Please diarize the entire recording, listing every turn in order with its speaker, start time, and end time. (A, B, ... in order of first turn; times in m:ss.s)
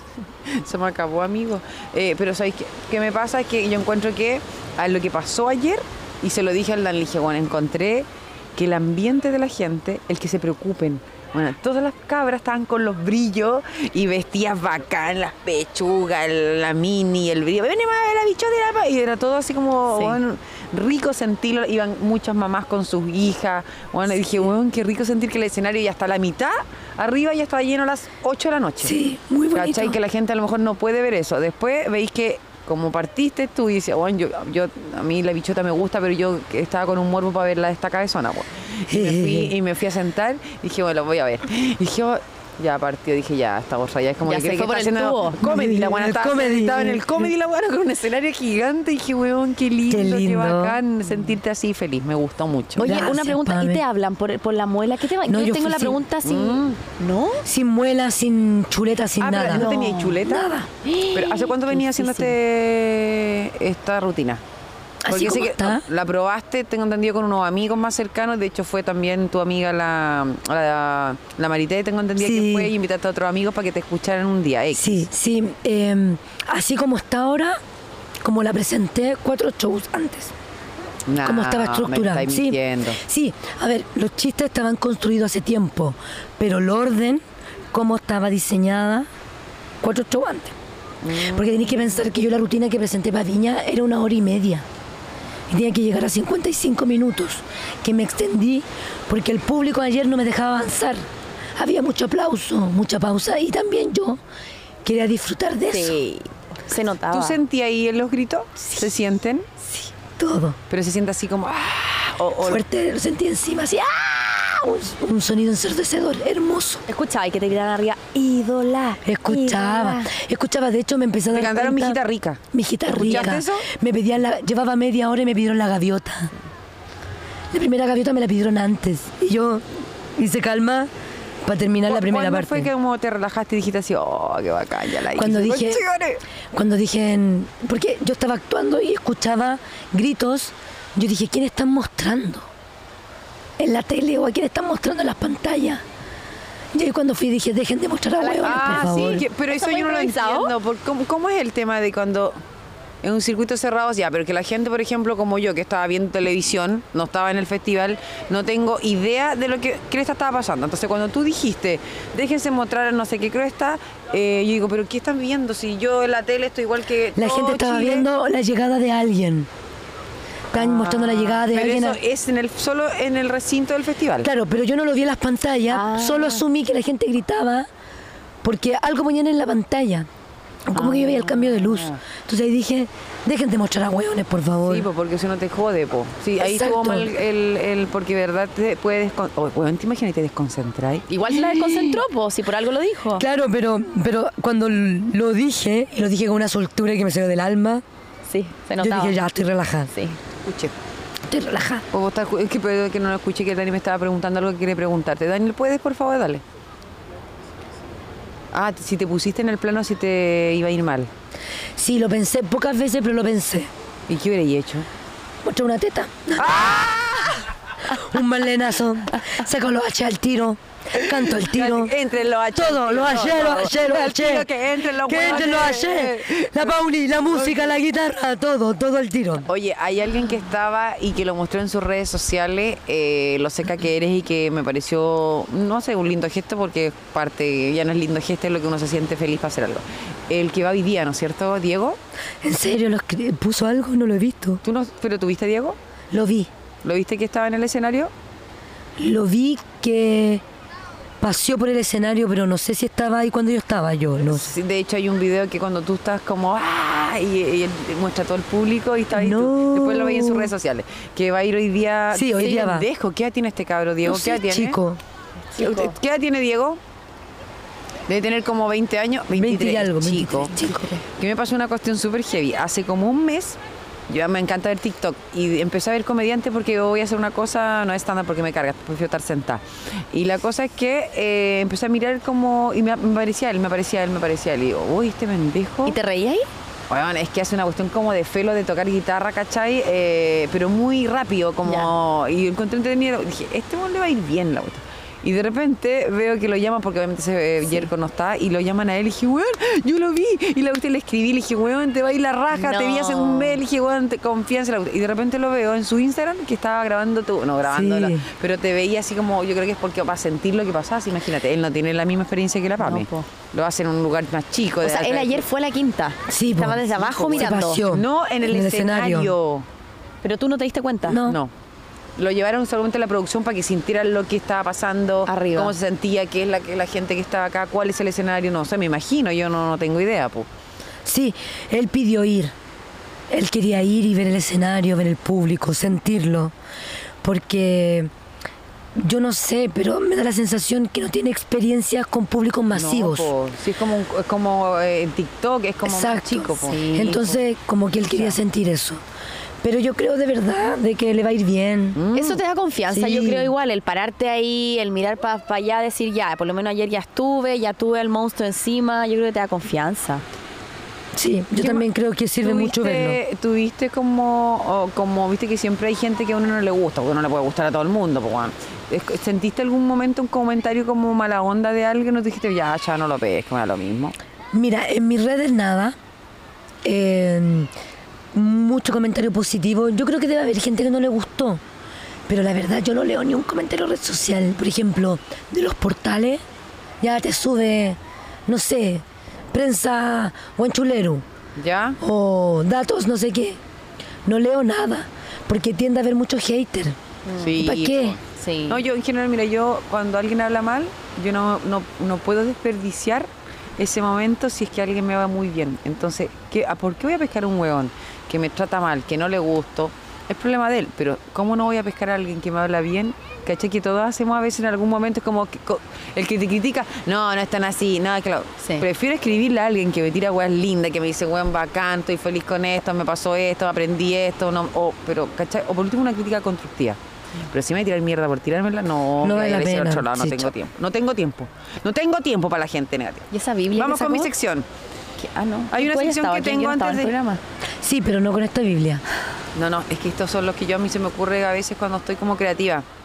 0:00.4-0:28.9 A
0:19.9-0:20.2 B
0:28.8-0:30.0 C
0:29.5-0:52.9 A
0:38.9-0:39.5 C
0:44.2-0:45.4 B
0:45.4-0:47.3 C
0:49.9-0:50.8 C
0:52.8-0:57.4 B
0:52.8-0:53.8 C
0:55.2-0:56.0 C
0:56.2-0:56.8 A
0:57.4-1:00.8 C
0:59.2-1:00.5 A
0:59.5-1:00.1 B
1:00.9-1:01.5 B
1:01.1-1:04.4 A
1:05.0-1:05.8 C
1:05.1-1:15.1 A
1:12.2-1:12.7 C
1:14.7-1:17.6 C
1:18.2-1:20.3 C
1:21.1-1:23.0 A
1:21.2-1:29.1 C
1:29.8-1:30.5 C
1:31.0-1:32.0 A
1:31.2-1:34.6 C
1:35.5-1:41.0 C
1:41.6-1:44.2 C
1:44.8-1:46.0 C
1:45.7-1:47.4 B
1:47.1-1:49.5 A
1:49.7-1:50.6 C
1:50.7-1:52.6 A
1:52.4-1:56.8 C
1:56.9-2:00.1 B
1:59.0-2:02.0 C
2:01.3-2:03.7 A
2:02.5-2:06.3 C
2:07.5-2:10.9 C
2:11.4-2:12.7 C
2:11.9-2:16.2 A
2:15.1-2:15.8 C
2:16.5-2:22.5 C
2:23.6-2:25.8 C
2:26.7-2:29.2 C
2:28.2-2:30.5 B
2:28.4-2:32.4 A
2:33.0-2:48.1 A
2:47.2-2:49.5 C
2:50.5-2:52.0 C
2:50.5-2:54.3 A
2:54.2-2:57.7 C
2:55.7-2:56.4 B
2:58.4-3:00.1 C
3:00.7-3:04.9 C
3:00.7-3:02.0 A
3:04.6-3:11.1 A
3:06.4-3:07.1 C
3:11.1-3:13.2 B
3:11.3-3:12.0 C
3:13.2-3:17.8 C
3:18.3-3:19.2 B
3:18.8-3:19.9 C
3:19.9-3:20.2 B
3:20.4-3:20.7 A
3:21.3-3:21.8 C
3:21.9-3:26.4 A
3:28.5-3:31.1 A
3:31.8-3:33.7 C
3:34.1-3:34.9 A
3:35.4-3:36.5 C
3:36.4-3:37.5 A
3:37.9-3:41.9 C
3:41.0-3:47.7 A
3:42.5-3:44.5 C
3:45.0-3:49.5 C
3:49.5-4:02.0 A
4:02.4-4:04.6 C
4:04.6-4:05.8 A
4:06.1-4:06.5 C
4:06.8-4:08.1 A
4:09.0-4:10.4 C
4:11.2-4:14.5 C
4:14.3-4:24.8 A
4:19.1-4:20.5 C
4:22.1-4:22.9 C
4:24.0-4:25.0 C
4:25.5-4:25.9 B
4:25.6-4:26.8 A
4:28.1-4:30.5 A
4:29.3-4:31.0 C
4:31.2-4:33.6 A
4:34.1-4:46.0 A
4:45.8-4:46.5 B
4:46.9-5:15.4 A
4:51.6-4:51.9 B
5:02.5-5:03.6 B
5:07.6-5:08.2 C
5:12.8-5:13.3 B
5:14.8-5:17.8 B
5:16.3-5:19.3 C
5:17.0-5:19.6 A
5:20.2-5:21.2 B
5:21.0-5:21.4 C
5:21.2-5:21.5 A
5:22.2-5:30.5 A
5:25.2-5:25.7 B
5:31.0-5:32.5 C
5:33.3-5:36.5 C
5:37.2-5:38.1 C
5:39.0-5:43.3 C
5:42.7-5:47.4 A
5:45.8-5:49.0 C
5:46.7-5:47.1 B
5:48.0-5:48.4 A
5:49.6-5:52.0 C
5:51.9-5:52.4 A
5:52.1-6:00.2 B
5:52.9-5:53.5 C
6:01.1-6:03.2 C
6:01.6-6:01.9 A
6:02.4-6:14.1 A
6:14.5-6:16.0 C
6:16.8-6:17.7 C
6:18.3-6:21.6 C
6:22.3-6:26.4 C
6:27.0-6:31.2 C
6:31.6-6:32.0 A
6:32.0-6:33.6 C
6:34.2-6:37.0 C
6:37.3-6:37.5 B
6:37.4-7:07.0 A
6:37.6-6:38.2 C
6:38.3-6:38.8 B
7:07.5-7:14.6 A
7:09.2-7:10.5 C
7:13.3-7:14.3 B
7:15.2-7:17.4 B
7:15.7-7:17.1 A
7:17.8-7:19.0 C
7:19.5-7:22.8 A